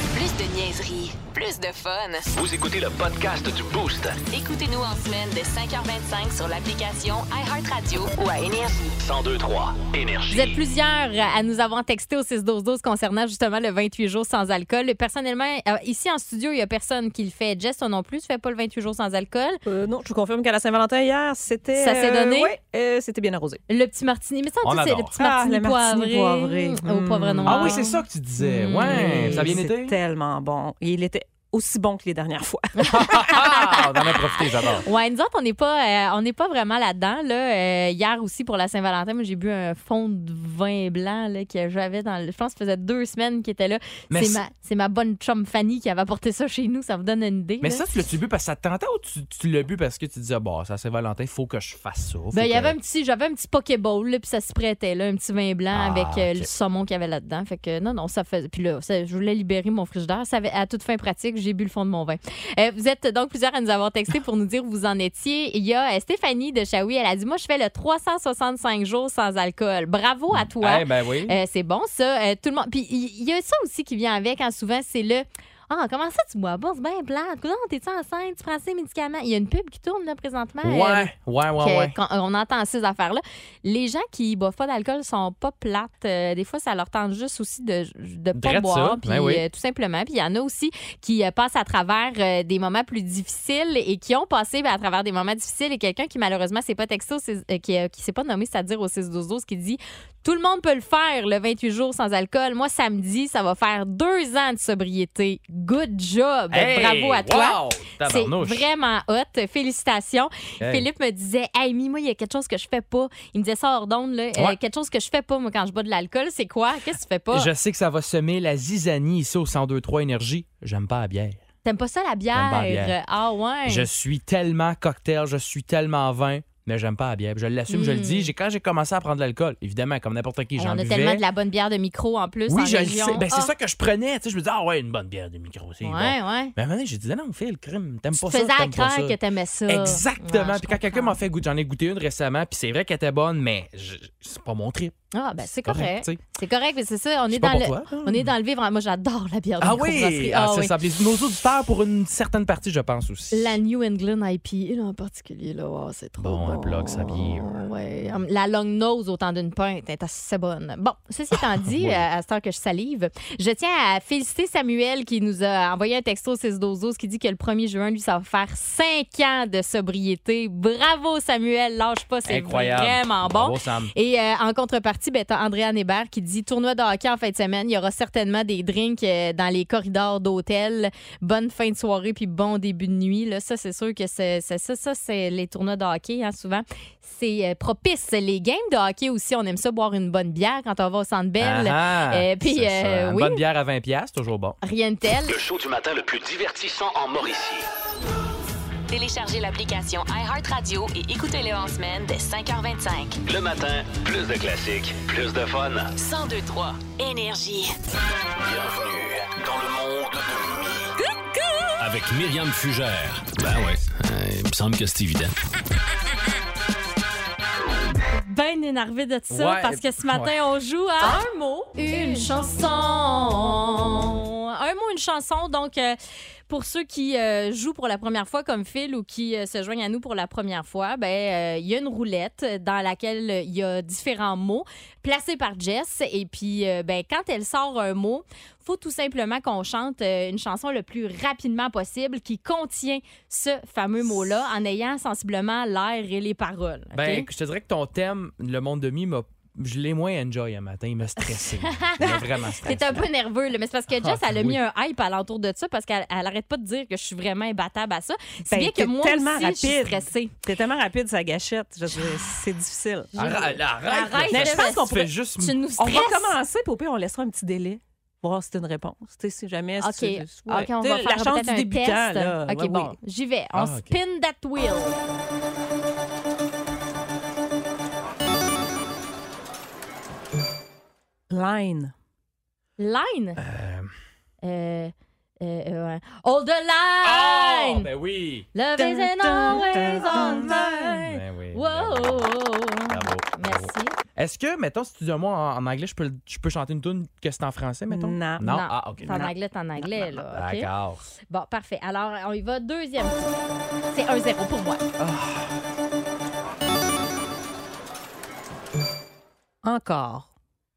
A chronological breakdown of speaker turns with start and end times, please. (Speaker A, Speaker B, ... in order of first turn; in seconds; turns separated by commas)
Speaker A: 0.1-2.3, Speaker B: 2.3-4.1, Speaker A: 4.3-9.0, Speaker B: 9.0-10.5, Speaker C: 10.3-19.6, Speaker D: 19.6-23.6, Speaker C: 21.8-22.5, Speaker C: 23.7-29.6, Speaker E: 24.6-25.2, Speaker D: 25.2-27.9, Speaker E: 27.4-30.0, Speaker D: 28.8-33.0, Speaker C: 32.8-47.9, Speaker E: 32.9-34.9, Speaker E: 44.1-44.4, Speaker E: 47.6-52.8, Speaker C: 52.3-117.5, Speaker E: 55.7-56.5, Speaker E: 70.3-71.3, Speaker E: 80.6-82.0, Speaker E: 88.3-89.4, Speaker E: 106.5-108.7, Speaker E: 110.6-110.9, Speaker E: 117.3-121.4, Speaker C: 121.6-123.9, Speaker E: 122.3-123.0, Speaker E: 123.7-131.2, Speaker C: 127.7-128.3, Speaker C: 130.6-133.5, Speaker E: 132.5-145.0, Speaker C: 135.8-136.5, Speaker C: 138.2-141.2, Speaker C: 145.1-150.8, Speaker E: 145.5-146.2, Speaker E: 147.3-148.3, Speaker E: 149.6-153.6, Speaker C: 153.3-193.4, Speaker E: 156.2-157.5, Speaker E: 161.4-162.1, Speaker E: 172.2-173.9, Speaker E: 191.4-194.6, Speaker C: 194.6-195.4, Speaker B: 195.3-197.6, Speaker A: 198.9-203.2, Speaker F: 203.3-205.5, Speaker B: 203.3-205.8, Speaker A: 205.9-207.7, Speaker F: 208.5-210.1, Speaker B: 209.4-210.7, Speaker F: 211.8-215.3, Speaker C: 218.1-225.9, Speaker E: 219.3-220.4, Speaker C: 226.5-247.3, Speaker E: 246.9-253.1, Speaker C: 251.6-260.3, Speaker E: 253.9-254.6, Speaker D: 258.5-263.1, Speaker C: 263.1-266.4, Speaker E: 263.1-265.6, Speaker D: 264.3-265.1, Speaker D: 265.8-272.9, Speaker C: 269.8-274.9, Speaker E: 273.5-274.0, Speaker D: 281.3-281.9, Speaker C: 282.8-283.4, Speaker E: 283.4-283.9, Speaker C: 284.4-287.9, Speaker E: 287.0-288.5, Speaker C: 288.5-293.9, Speaker D: 288.8-291.0, Speaker E: 289.5-292.3, Speaker E: 292.9-299.3, Speaker D: 297.9-298.5, Speaker C: 298.4-300.7, Speaker D: 299.0-299.3, Speaker E: 300.1-301.0, Speaker C: 301.3-303.4, Speaker C: 303.9-304.9, Speaker E: 305.0-305.6, Speaker D: 309.6-310.3